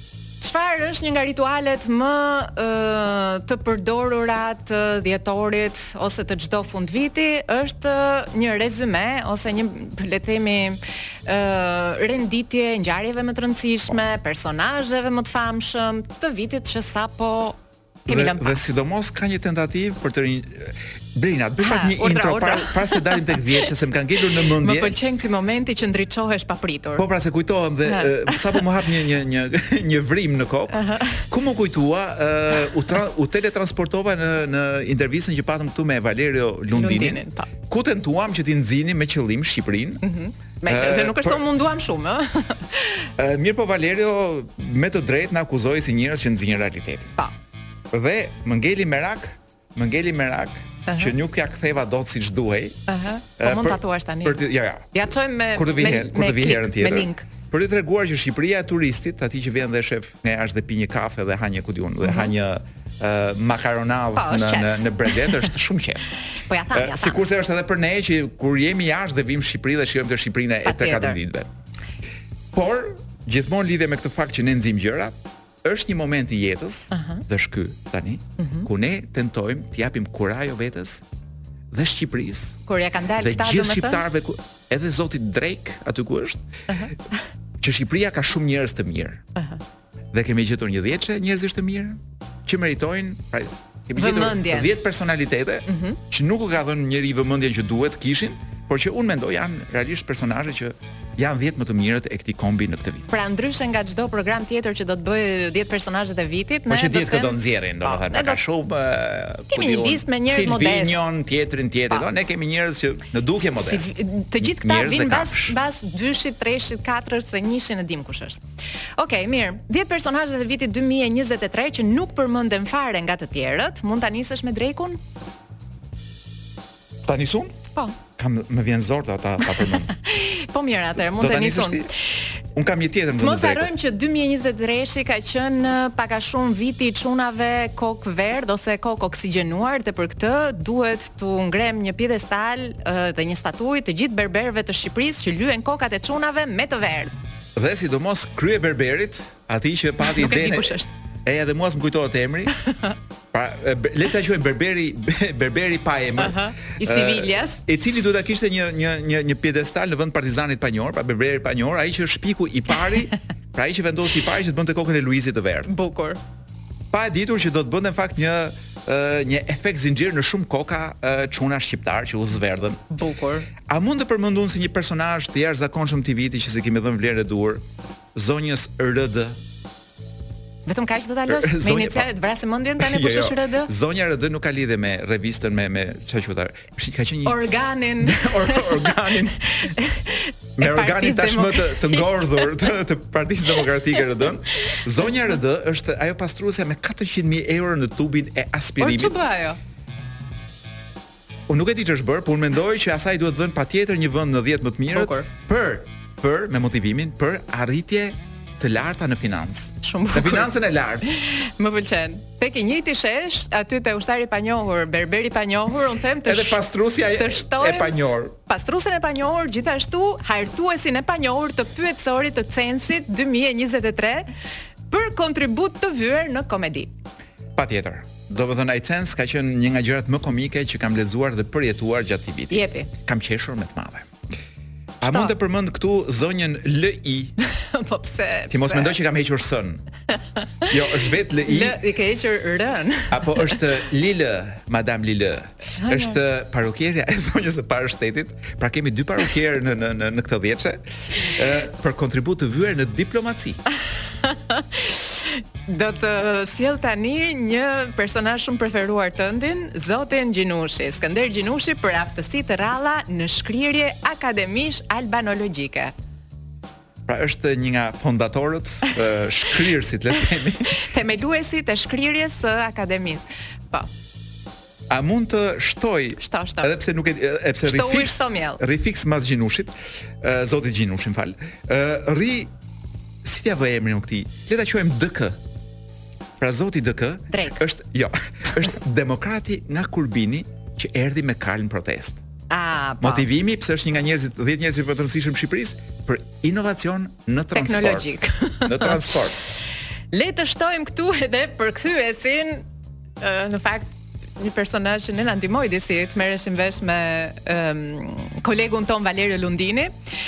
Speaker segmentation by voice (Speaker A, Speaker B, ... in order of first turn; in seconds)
Speaker A: 0.4-18.7, 21.6-23.4, 24.5-27.1, 27.9-28.6, 30.8-31.2, 36.7-37.5, 40.0-43.0, 50.9-51.1, 52.9-54.4, 54.9-57.3, 62.0-62.3, 64.2-65.5, 66.3-67.2, 70.6-71.2, 76.9-77.2, 78.4-78.7, 82.7-84.0, 86.7-87.0, 89.4-89.6, 94.0-94.7, 95.7-96.0, 103.1-108.4, 109.5-111.0, 113.4-118.4, 119.0-125.0, 129.9-131.9, 133.2-147.1, 150.0-150.9, 156.2-157.6, 165.7-166.2, 172.9-173.5, 180.7-183.7, 187.2-188.9, 189.5-192.5, 198.8-199.6, 204.9-205.3, 209.8-210.5, 211.1-216.6, 217.1-224.3, 224.9-226.9, 232.5-232.9, 235.0-235.3, 237.5-239.0, 241.4-243.6, 245.8-246.2, 254.2-265.9, 270.6-273.9, 276.2-276.7, 277.6-278.6, 287.3-287.6, 292.5-293.3, 297.5-299.1, 300.1-302.6, 303.2-309.9
Speaker B: 18.1-25.0, 27.0-40.0, 40.7-41.4, 43.2-47.2, 47.9-52.8, 53.4-55.0, 55.5-66.1, 66.7-71.5, 72.5-81.0, 81.7-82.6, 83.2-86.4, 87.6-89.2, 90.1-103.2, 106.7-115.6, 127.0-127.5, 128.2-129.9, 131.0-131.9, 132.6-133.7, 147.6-152.6, 153.3-165.7, 166.9-172.8, 173.7-177.6, 178.2-179.4, 181.3-182.1, 182.8-187.4, 188.0-189.5, 190.6-199.2, 201.5-211.1, 216.2-218.4, 227.6-234.1, 235.0-237.3, 238.5-239.8, 240.7-241.8, 243.1-253.6, 267.1-270.8, 274.9-282.5, 283.2-285.4, 286.4-292.2, 293.0-299.4